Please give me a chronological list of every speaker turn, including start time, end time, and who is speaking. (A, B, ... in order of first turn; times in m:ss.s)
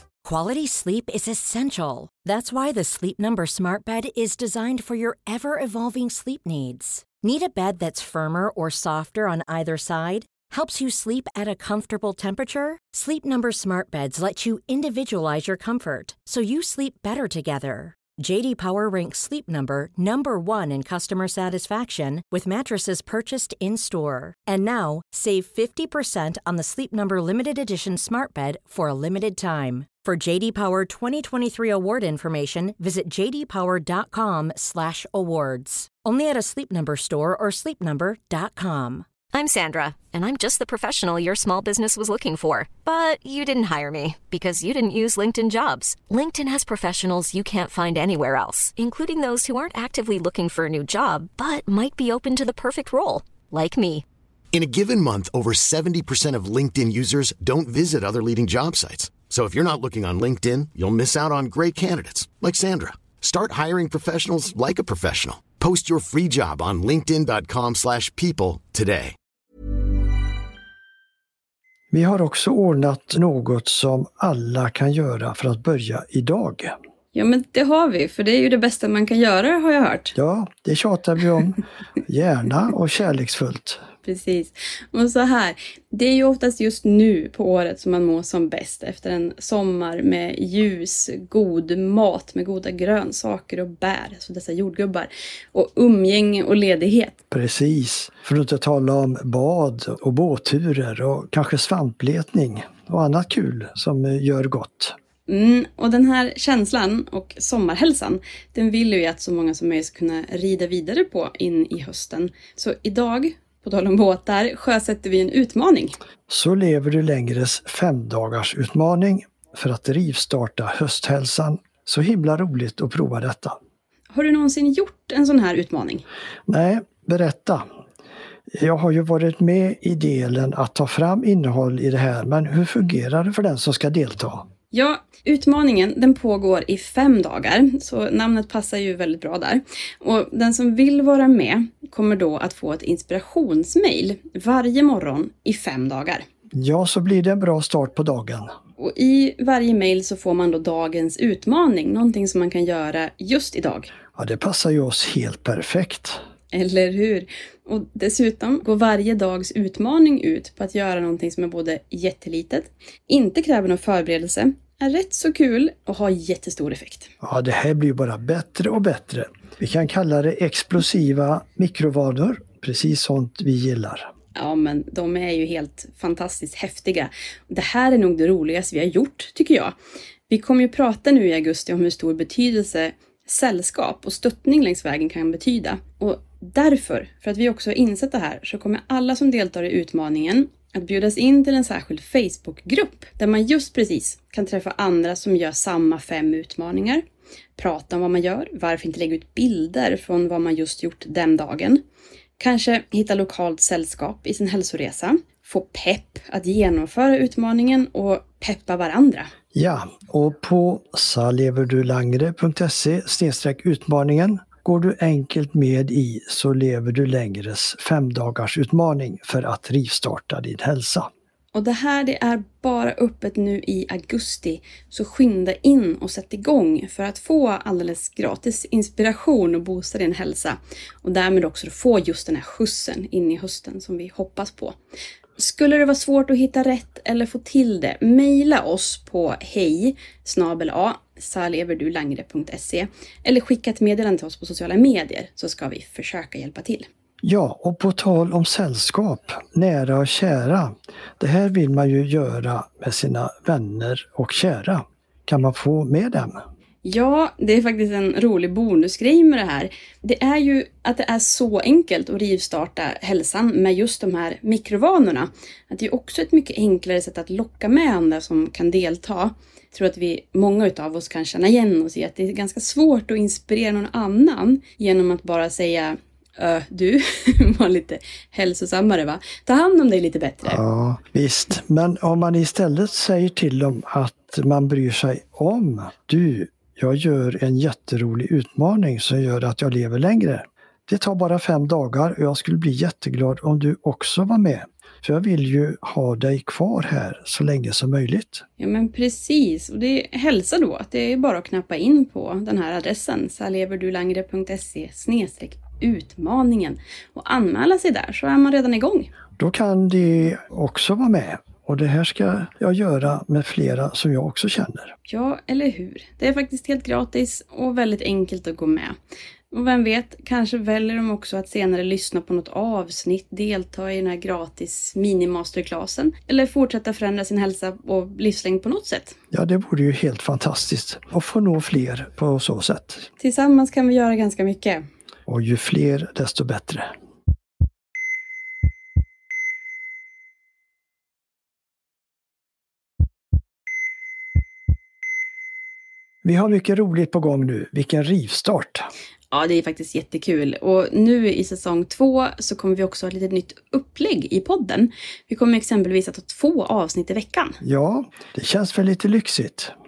0:00.2-0:39.1 A
0:39.3-0:54.0 B
0:54.5-1:09.1 C
1:11.9-1:16.7 D
1:17.1-1:20.1 E
1:20.1-1:23.8 D
1:24.0-1:37.2 E
1:37.3-1:45.0 D
1:45.3-1:56.0 E
1:56.3-2:03.6 D
2:04.1-2:06.0 E
2:06.5-2:07.6 D
2:08.5-2:14.5 D
2:14.7-2:26.2 E
2:26.5-2:28.5 D
2:28.8-2:33.9 E
2:34.1-2:36.2 D
2:36.5-2:47.1 E
2:47.2-2:54.1 D
2:54.4-2:59.7 E
3:00.3-3:17.0 E
3:17.6-3:21.8 E
3:22.4-3:29.3 E
3:29.5-3:41.1 D
3:41.5-3:54.8 E
3:55.4-4:06.9 E
4:07.2-4:16.4 D
4:16.8-4:40.6 E
4:40.4-4:58.4 D
4:58.6-5:09.1 E
5:09.4-5:14.9 D
5:15.1-5:19.0 E
5:19.5-5:29.1 E
5:29.3-5:33.1 D
5:33.2-5:34.8 E
5:35.3-5:36.9 D
5:46.2-5:48.9 D
5:49.3-5:57.6 E
5:57.6-5:59.7 D